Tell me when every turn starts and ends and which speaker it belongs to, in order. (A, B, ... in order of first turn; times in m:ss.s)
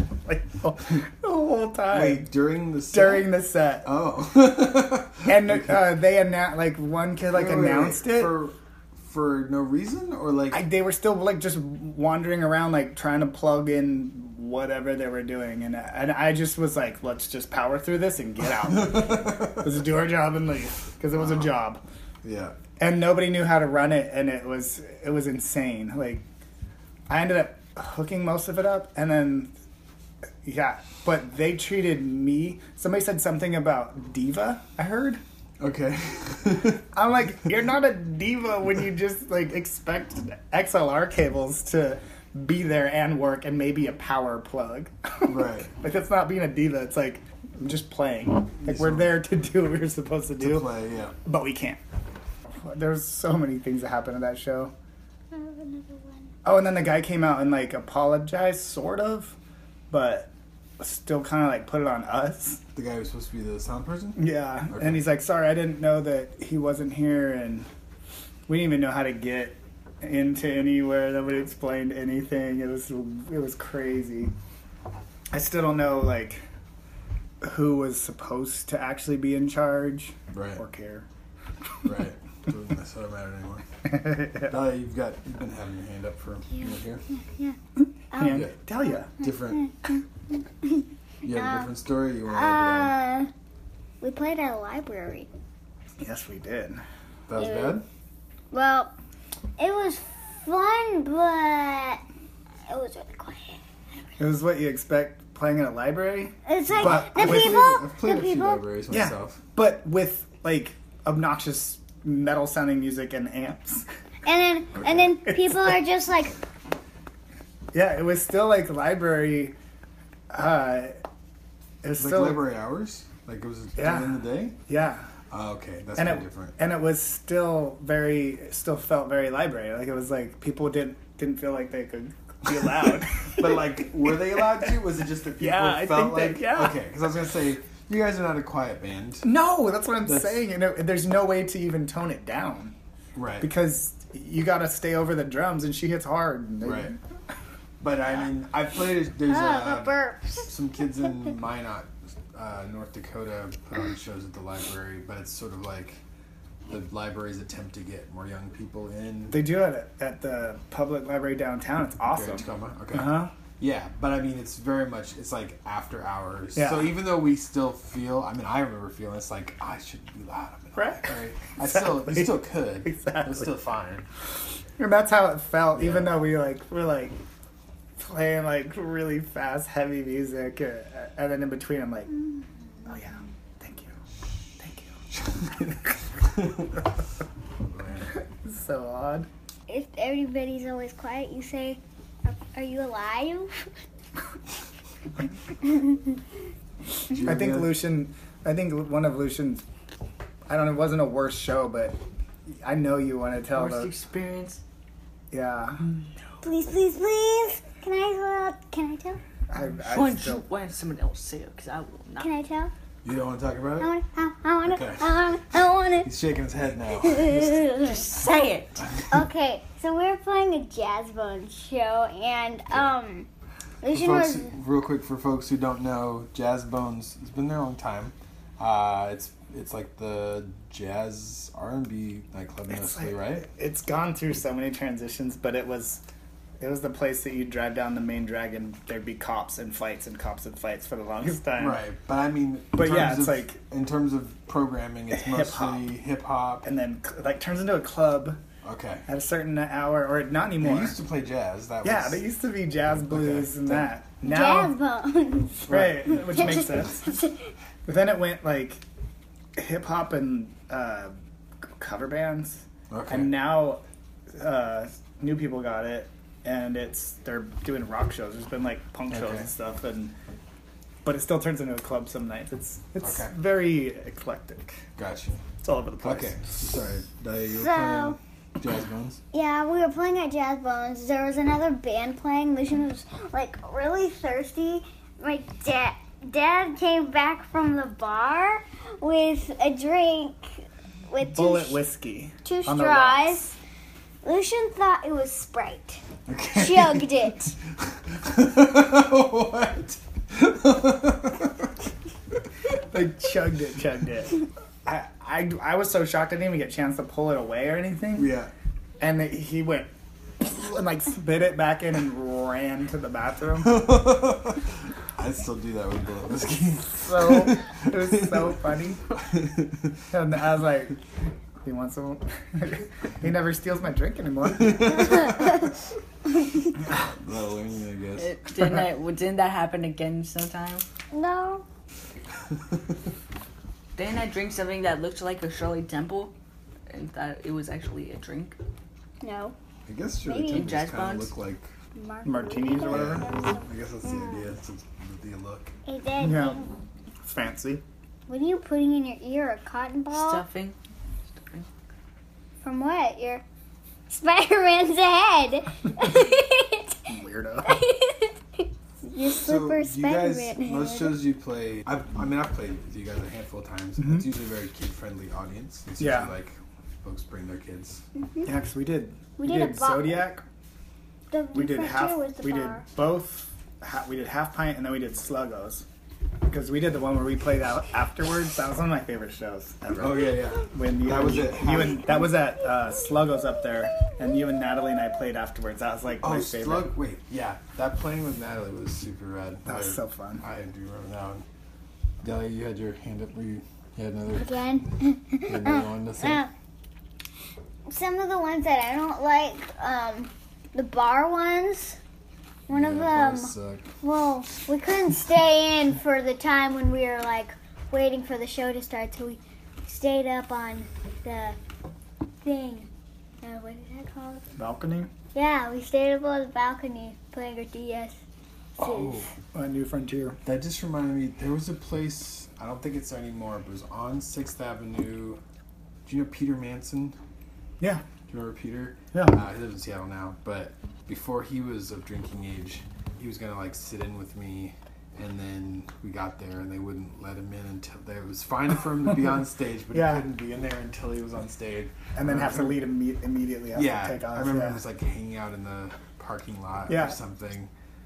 0:00.2-0:02.2 A
0:01.9-0:05.8 B
0:02.9-0:03.9 A
0:05.2-0:08.4 A
0:07.3-0:10.6 B
0:10.5-0:21.8 A
0:18.6-0:19.8 B
0:21.2-0:21.5 B
0:22.2-0:22.5 B
0:22.8-0:26.2 A
0:27.1-0:29.5 A
0:30.4-0:35.2 A
0:35.6-0:36.8 B
0:36.9-0:50.7 A
0:45.3-0:45.7 B
0:48.6-0:49.2 B
0:50.4-0:51.1 B
0:51.2-0:51.8 A
0:52.6-0:54.7 A
0:55.3-0:56.3 C
0:56.4-0:59.4 A
0:59.9-1:02.6 A
1:02.7-1:05.0 B
1:04.2-1:07.7 A
1:08.5-1:14.3 A
1:15.3-1:16.4 A
1:17.4-1:21.0 A
1:20.3-1:20.6 B
1:21.8-1:23.6 B
1:23.8-1:24.5 A
1:24.4-1:27.0 B
1:26.6-1:27.6 C
1:28.1-1:28.4 C
1:28.1-1:29.1 A
1:28.2-1:28.6 B
1:29.2-1:29.7 B
1:29.2-1:30.0 C
1:30.6-1:31.7 C
1:31.2-1:33.0 B
1:32.3-1:33.3 C
1:34.0-1:35.3 C
1:36.0-1:36.8 A
1:37.3-1:37.8 B
1:37.4-1:37.8 C
1:38.5-1:38.9 C
1:39.6-1:42.0 C
1:42.7-1:43.6 C
1:44.2-1:47.8 A
1:46.4-1:48.6 C
1:46.7-1:49.4 B
1:48.9-1:53.8 A
1:54.2-1:56.3 C
1:55.3-1:55.7 A
1:57.7-1:59.6 A
2:00.3-2:00.9 A
2:01.8-2:02.4 A
2:02.0-2:04.6 B
2:03.8-2:05.1 A
2:05.3-2:06.6 B
2:06.0-2:14.4 A
2:13.3-2:19.3 B
2:15.4-2:16.8 A
2:19.2-2:22.7 A
2:20.0-2:20.4 B
2:23.1-2:23.5 B
2:23.4-2:27.0 A
2:26.6-2:26.9 B
2:27.8-2:36.0 B
2:29.3-2:30.5 C
2:36.7-2:39.4 B
2:39.3-2:43.3 A
2:42.1-2:54.1 B
2:46.5-2:46.9 A
2:50.8-2:53.5 A
2:54.8-2:57.2 A
2:55.7-2:56.2 B
2:58.0-3:02.1 A
3:02.9-3:03.9 A
3:04.6-3:05.0 A
3:07.6-3:08.1 B
3:08.1-3:09.3 A
3:09.7-3:13.5 C
3:15.6-3:16.0 C
3:17.1-3:17.8 B
3:17.1-3:19.6 A
3:20.5-3:22.0 A
3:22.5-3:23.9 A
3:23.5-3:24.6 D
3:25.3-3:25.8 A
3:26.4-3:29.2 C
3:29.5-3:30.4 A
3:29.9-3:32.3 D
3:32.2-3:32.7 C
3:33.0-3:33.9 B
3:33.8-3:36.1 C
3:34.6-3:35.2 B
3:36.0-3:37.7 B
3:37.0-3:38.2 C
3:37.8-3:38.8 D
3:38.8-3:39.2 B
3:39.1-3:43.3 C
3:43.8-3:44.5 C
3:43.9-3:53.5 B
3:52.7-3:56.0 A
3:56.6-4:01.8 A
4:01.6-4:06.6 B
4:02.7-4:03.6 A
4:05.1-4:05.9 A
4:06.6-4:08.4 A
4:08.6-4:09.0 B
4:09.1-4:11.0 A
4:10.6-4:12.2 B
4:11.8-4:14.7 A
4:13.1-4:13.9 B
4:14.2-4:15.7 C
4:15.7-4:17.2 A
4:15.7-4:16.4 B
4:16.3-4:17.3 C
4:17.8-4:18.8 A
4:19.6-4:21.1 A
4:21.8-4:30.1 A
4:22.9-4:23.4 B
4:29.1-4:29.5 B
4:31.0-4:34.8 A
4:33.0-4:33.3 B
4:35.0-4:35.4 B
4:35.6-4:36.4 A
4:36.0-4:39.2 B
4:37.5-4:38.2 C
4:39.3-4:51.8 C
4:51.2-4:53.4 A
4:52.4-4:53.6 C
4:54.2-4:56.0 C
4:56.3-4:57.1 B
4:56.5-4:57.5 C
4:57.8-5:01.7 B
5:02.9-5:08.3 A
5:08.1-5:08.5 B
5:09.0-5:13.8 A
5:13.6-5:18.5 B
5:17.0-5:19.0 A
5:19.1-5:20.0 B
5:20.1-5:21.0 A
5:21.6-5:25.2 A
5:24.5-5:25.7 B
5:26.9-5:28.4 B
5:28.2-5:30.8 D
5:31.1-5:31.6 C
5:34.0-5:36.3 D
5:36.9-5:38.6 D
5:39.2-5:39.5 C
5:39.9-5:41.7 B
5:40.2-5:40.6 C
5:40.5-5:41.3 D
5:41.9-5:44.5 C
5:42.2-5:43.3 A
5:42.8-5:45.7 B
5:45.8-5:46.7 C
5:46.2-5:46.6 A
5:47.2-5:47.8 A
5:48.3-5:50.4 C
5:50.1-5:50.8 D
5:51.3-5:51.7 D
5:52.6-5:53.4 C
5:54.1-5:57.0 C
5:57.1-5:57.8 A
5:57.6-6:01.2 C
5:59.2-6:08.0 B
6:04.0-6:04.3 A
6:06.0-6:06.3 A
6:08.2-6:08.5 C
6:08.4-6:10.4 A
6:09.4-6:10.2 C
6:11.3-6:12.8 C
6:11.5-6:15.8 A
6:16.5-6:26.9 A
6:20.0-6:22.2 B
6:26.2-6:31.4 B
6:29.6-6:30.4 A
6:32.2-6:34.6 B
6:34.3-6:36.5 C
6:35.4-6:36.4 B
6:37.9-6:42.0 C
6:42.7-6:51.6 C
6:42.7-6:43.9 B
6:52.4-6:52.9 C
6:53.4-6:54.4 C
6:54.6-6:55.1 A
6:55.3-6:58.2 C
6:58.8-6:59.3 C
6:58.8-6:59.3 B
6:59.5-7:00.4 A
7:00.4-7:05.4 B
7:06.0-7:07.2 B
7:08.3-7:22.8 B
7:09.1-7:09.4 A
7:19.9-7:20.2 A
7:22.1-7:24.8 A
7:23.7-7:27.7 B
7:26.9-7:27.2 A